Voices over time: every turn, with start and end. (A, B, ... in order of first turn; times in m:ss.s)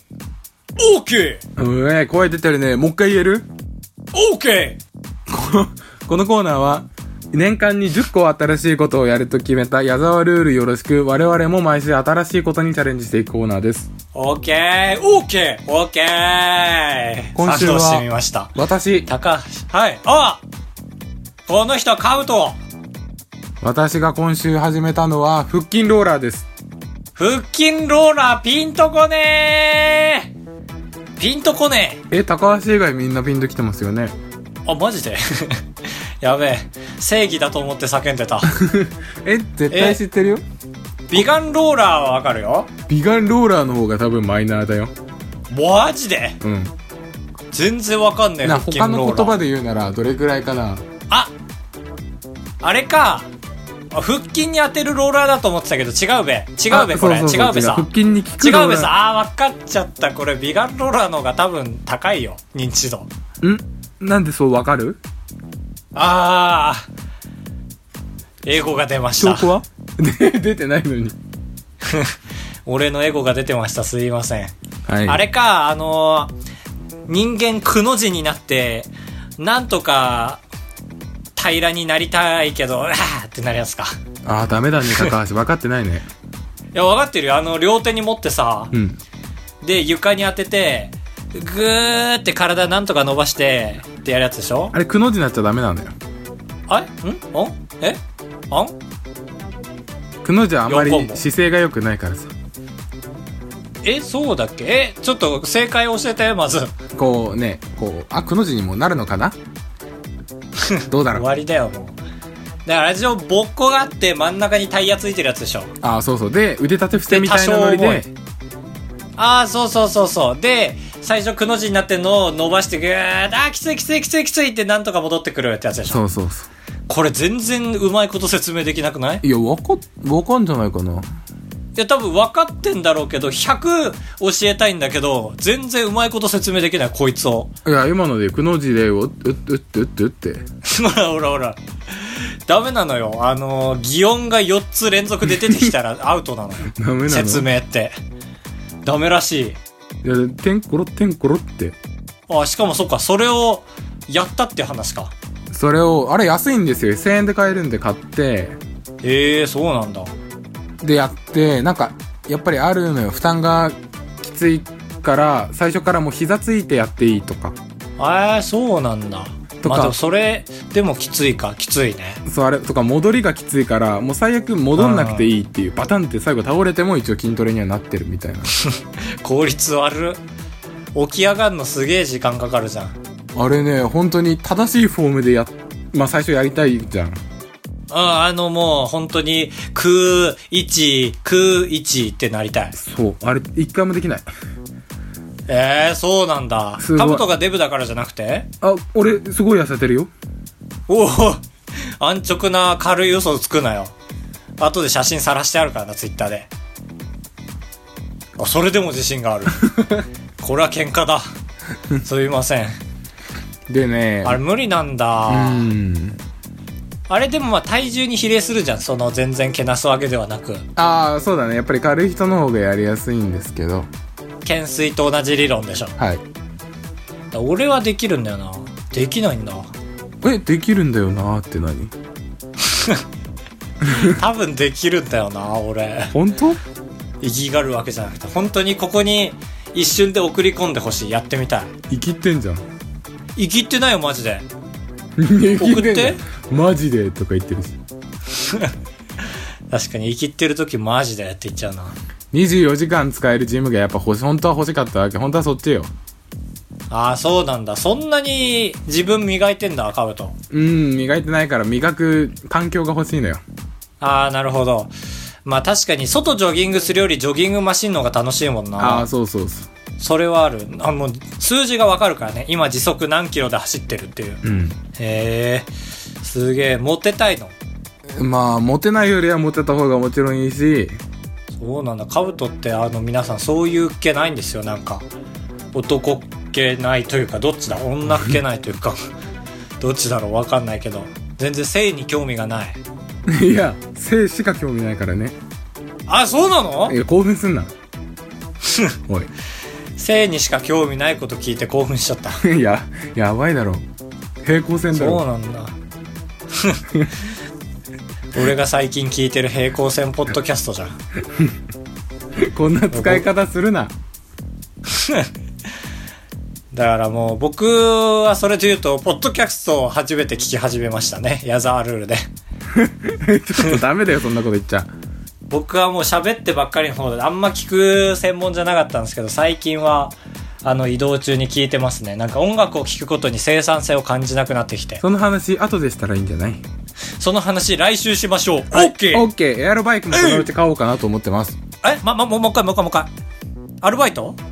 0:00.8-0:01.4 A
0:01.6-0:03.5 B
0:04.1-0:04.8 A
0:05.3-0:13.9 B
0:14.1-0:18.6 A
0:17.4-0:19.1 B
0:19.1-0:20.4 A
0:21.5-0:22.6 A
0:23.6-0:26.5 B
0:27.2-0:30.3 A
0:31.2-0:32.0 A
0:32.1-0:34.1 B
0:34.7-0:35.6 A
0:36.2-0:38.6 A
0:38.5-0:40.4 B
0:39.7-0:40.0 A
0:41.1-0:42.7 A
0:42.9-0:44.9 B
0:45.5-0:46.4 A
0:46.4-0:46.7 B
0:47.5-0:49.4 A
0:48.4-0:50.8 B
0:52.6-0:53.3 A
0:53.9-0:57.9 A
0:56.7-0:58.9 B
0:58.4-1:03.1 A
1:03.4-1:05.0 B
1:06.0-1:06.9 A
1:08.4-1:09.5 A
1:09.2-1:11.2 B
1:11.8-1:12.2 A
1:12.7-1:14.5 A
1:14.9-1:15.2 B
1:15.0-1:16.3 A
1:17.1-1:20.4 A
1:21.4-1:24.0 A
1:24.2-1:26.1 B
1:26.7-1:28.7 A
1:28.7-1:29.0 B
1:29.6-1:34.7 A
1:34.7-1:35.9 B
1:36.7-1:38.0 A
1:38.5-1:38.8 A
1:40.2-1:42.3 B
1:40.7-1:41.2 A
1:43.8-1:46.7 A
1:47.0-1:49.4 B
1:50.6-1:52.0 A
1:50.9-1:51.3 B
1:52.7-1:55.7 A
1:55.8-1:58.1 B
1:57.0-1:58.1 A
1:59.2-2:06.0 A
2:05.9-2:06.5 B
2:06.9-2:09.2 A
2:09.2-2:11.1 B
2:11.8-2:17.5 A
2:17.6-2:20.4 B
2:20.6-2:28.0 A
2:25.4-2:25.7 B
2:26.7-2:27.5 B
2:28.8-2:29.6 A
2:30.0-2:31.8 B
2:32.3-2:35.1 A
2:35.5-2:38.6 B
2:39.0-2:40.1 A
2:40.8-2:47.6 B
2:48.0-2:52.2 A
2:49.6-2:50.0 B
2:52.2-2:58.5 B
2:54.8-2:55.3 A
2:58.5-3:00.2 A
3:01.0-3:03.0 A
3:03.4-3:07.2 B
3:07.9-3:12.8 A
3:12.8-3:14.3 B
3:15.5-3:18.5 A
3:16.8-3:17.2 B
3:18.6-3:20.1 B
3:20.9-3:21.4 A
3:22.0-3:23.9 A
3:24.6-3:26.5 A
3:28.4-3:31.2 A
3:32.0-3:32.8 A
3:33.7-3:34.4 B
3:34.2-3:35.7 A
3:35.3-3:36.2 B
3:37.1-3:40.7 A
3:40.8-3:43.9 B
3:44.4-3:46.0 A
3:46.0-3:46.2 B
3:47.3-3:49.7 A
3:50.2-3:51.9 B
3:52.6-3:53.0 A
3:53.8-3:54.2 B
3:53.8-3:56.2 A
3:56.1-3:56.6 B
3:57.2-4:01.7 A
4:01.9-4:02.6 B
4:03.4-4:04.5 A
4:05.2-4:07.8 B
4:05.6-4:06.2 A
4:08.4-4:08.7 A
4:09.7-4:12.0 A
4:12.3-4:15.9 B
4:16.9-4:20.4 A
4:20.5-4:23.4 B
4:24.0-4:24.9 A
4:25.4-4:29.1 A
4:28.8-4:29.7 B
4:30.0-4:34.4 A
4:34.4-4:34.8 B
4:35.0-4:35.7 A
4:36.2-4:37.5 A
4:38.2-4:40.9 B
4:41.6-4:45.1 A
4:45.7-4:49.0 A
4:49.8-4:52.8 A
4:53.3-4:55.4 B
4:56.1-4:57.0 A
4:56.9-4:57.7 B
4:58.6-4:59.0 A
5:00.0-5:02.4 A
5:02.4-5:03.8 B
5:04.4-5:05.2 B
5:04.9-5:05.8 A
5:06.5-5:06.8 A
5:08.3-5:11.0 A
5:11.3-5:11.5 B
5:12.4-5:13.9 B
5:12.9-5:13.3 A
5:14.9-5:15.3 A
5:16.7-5:22.2 A
5:22.7-5:24.9 B
5:25.5-5:35.0 A
5:35.0-5:36.6 B
5:37.2-5:39.3 A
5:38.7-5:41.6 B
5:40.1-5:40.5 A
5:41.8-5:43.1 A
5:43.8-5:44.4 A